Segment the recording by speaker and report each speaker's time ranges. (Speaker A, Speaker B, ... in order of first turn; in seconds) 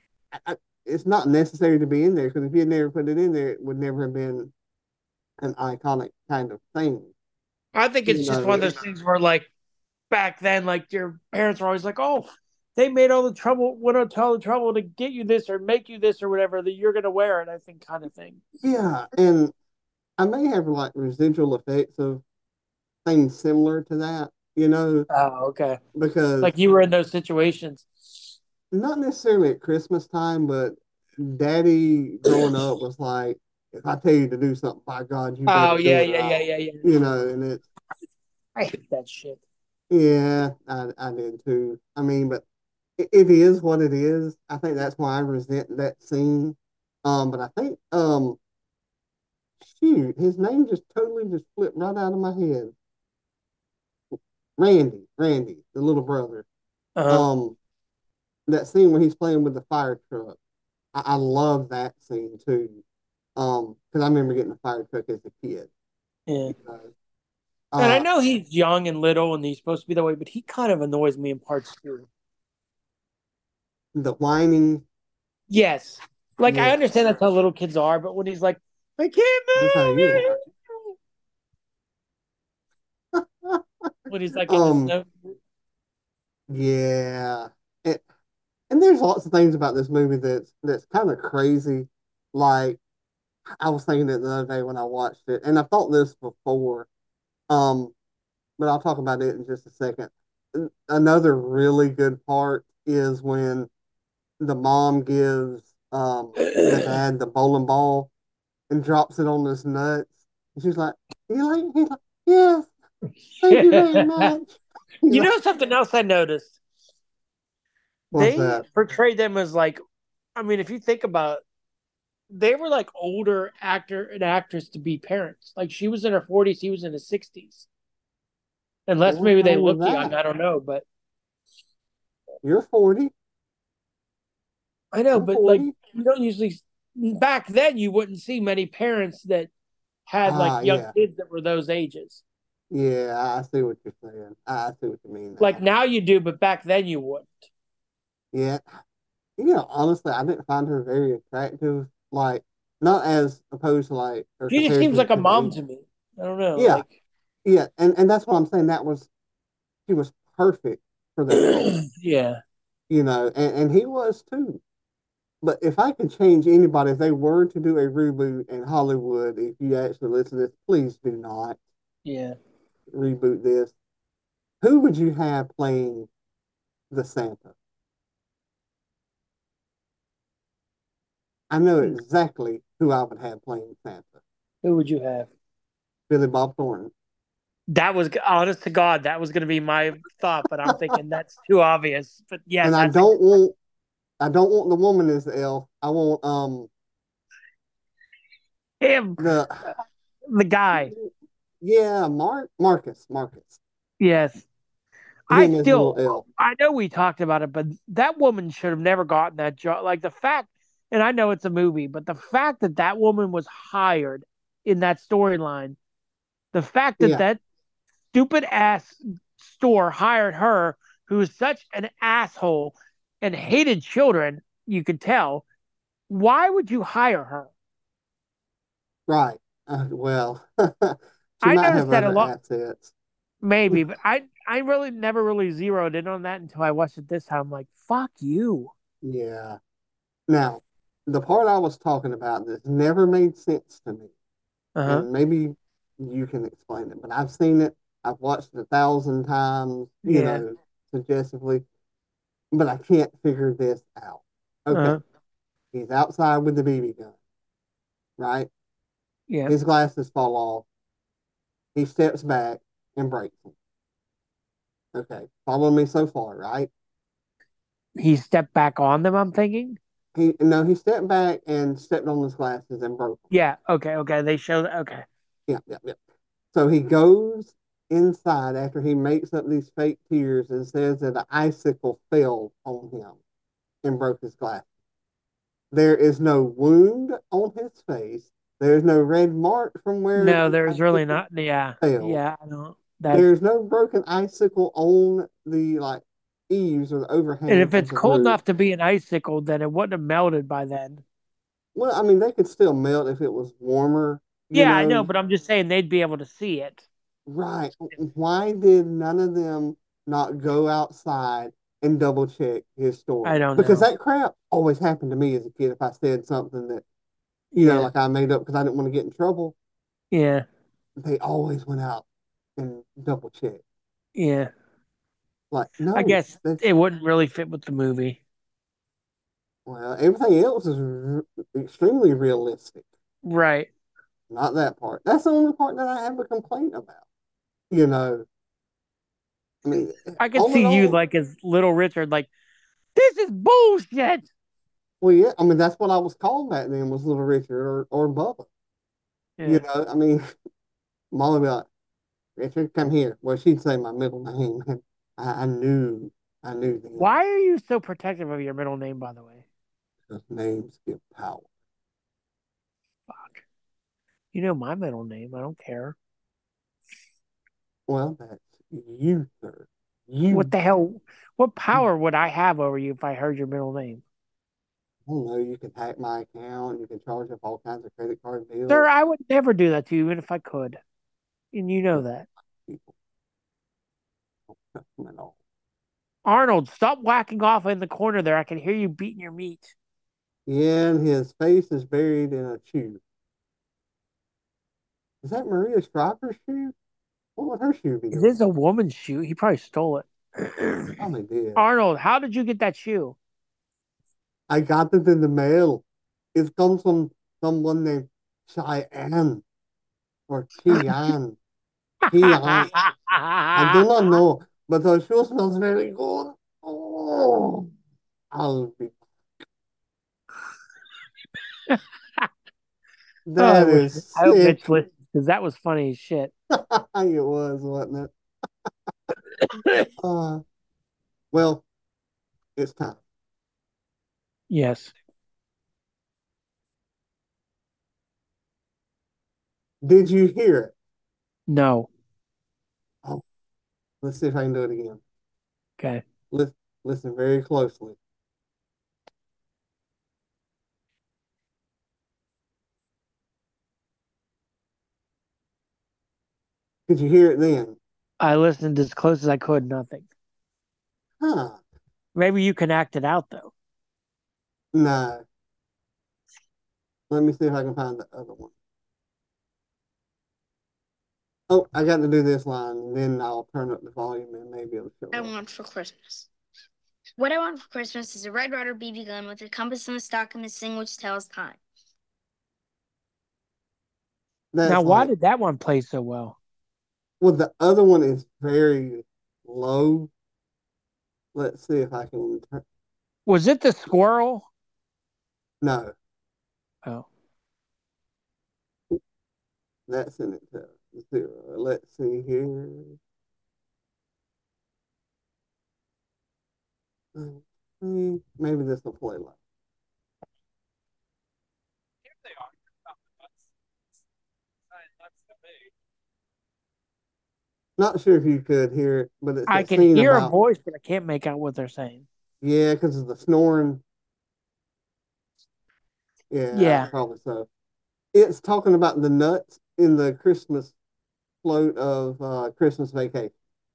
Speaker A: 0.3-4.5, 5.4-7.1, 8.1-8.7, 18.6-19.5, 20.2-22.2, 23.1-25.1, 25.9-26.6, 28.7-37.6, 39.9-42.4, 43.0-48.4, 49.6-52.7, 54.6-56.5, 57.1-57.6, 58.5-60.4, 60.9-62.8, 63.4-65.7, 66.5-66.9, 67.7-68.1, 74.0-74.8, 76.5-76.8, 79.6-80.4, 83.1-83.9, 84.5-84.9, 86.5-88.0, 88.7-92.8, 93.6-96.9, 97.5-97.9, 98.6-103.7, 104.4-108.1, 108.7-112.7, 113.4-115.3, 118.1-118.6, 129.1-130.1, 132.4-133.1, 135.1-135.7, 140.2-140.9, 142.7-145.6, 148.3-148.6, 149.4-155.6, 156.6-156.8, 157.4-159.1, 159.9-161.8, 162.9-164.6, 165.4-171.6, 172.9-173.7, 174.6-176.1, 176.9-177.5, 181.5-184.2, 186.1-186.9, 192.6-193.6, 194.2-196.7, 199.2-199.6, 200.7-201.1, 201.6-203.6, 205.3-206.2, 217.0-217.2, 229.1-232.9, 239.0-239.6, 240.3-244.1, 244.9-251.7, 252.5-255.0, 255.7-257.2, 258.2-258.5, 259.5-260.7, 261.8-263.6, 264.9-266.7, 270.1-273.3, 275.5-276.0, 276.5-283.2, 283.8-284.7, 285.7-291.2, 291.8-292.2, 293.1-298.4, 301.8-305.1, 307.3-316.8, 317.6-319.6, 321.0-322.1, 322.6-323.6, 325.5-326.6, 329.7-332.9, 334.3-337.0, 337.7-338.3, 339.6-341.0, 345.0-348.5, 349.4-350.2, 351.1-351.7, 352.4-357.2, 360.1-361.5, 367.9-370.5, 375.1-378.9, 382.7-382.9, 384.5-385.3, 390.5-393.0, 395.2-396.8, 397.4-398.4, 401.0-401.7, 404.5-409.4, 410.3-411.4, 412.1-412.7, 413.6-417.7, 418.3-419.0, 423.3-424.6, 426.5-428.1, 430.0-430.4, 431.3-431.6, 432.6-433.0, 439.8-440.7, 444.0-445.0, 446.3-448.0, 456.9-457.8, 461.2-461.6, 464.7-465.2, 467.1-468.5, 471.5-475.3, 484.5-485.1, 487.2-490.1, 491.3-492.6, 495.6-495.9, 499.9-503.0, 507.1-509.4, 517.8-520.3, 522.4-523.8, 526.3-527.5, 528.1-530.8, 531.4-533.3
Speaker B: 7.8-9.5, 10.1-18.4, 25.1-25.8, 26.4-28.4, 35.5-36.9, 38.6-39.4, 57.0-57.3, 66.3-66.5, 67.8-72.1, 75.5-80.4, 84.1-85.3, 106.4-107.0, 113.5-114.3, 115.1-116.5, 118.2-119.8, 120.4-121.4, 122.3-127.7, 128.9-130.8, 134.9-139.5, 140.1-142.2, 145.4-147.5, 154.5-156.9, 161.7-162.4, 172.1-172.4, 184.6-185.3, 187.7-193.2, 198.8-199.2, 200.3-200.9, 204.0-204.4, 205.3-215.8, 216.5-217.4, 218.1-225.4, 226.1-227.5, 231.4-232.3, 233.4-238.7, 244.8-245.1, 250.1-250.4, 254.7-255.0, 259.3-259.5, 268.0-269.8, 273.3-275.1, 290.1-293.3, 297.5-301.0, 304.5-306.9, 313.2-313.9, 317.5-317.9, 320.1-320.4, 324.2-324.5, 325.9-328.2, 333.2-333.7, 340.2-342.3, 342.9-344.3, 349.4-349.6, 357.0-359.4, 363.1-363.4, 364.3-365.9, 370.3-374.0, 378.7-380.8, 381.5-382.3, 386.2-389.7, 398.1-401.0, 401.6-403.1, 412.1-413.9, 421.7-422.3, 423.4-426.3, 429.4-429.9, 434.5-434.9, 441.5-441.9, 458.2-460.1, 462.1-463.5, 484.6-486.4, 493.3-494.5, 519.5-522.1, 526.5-526.9
Speaker C: 475.1-476.3, 477.2-481.6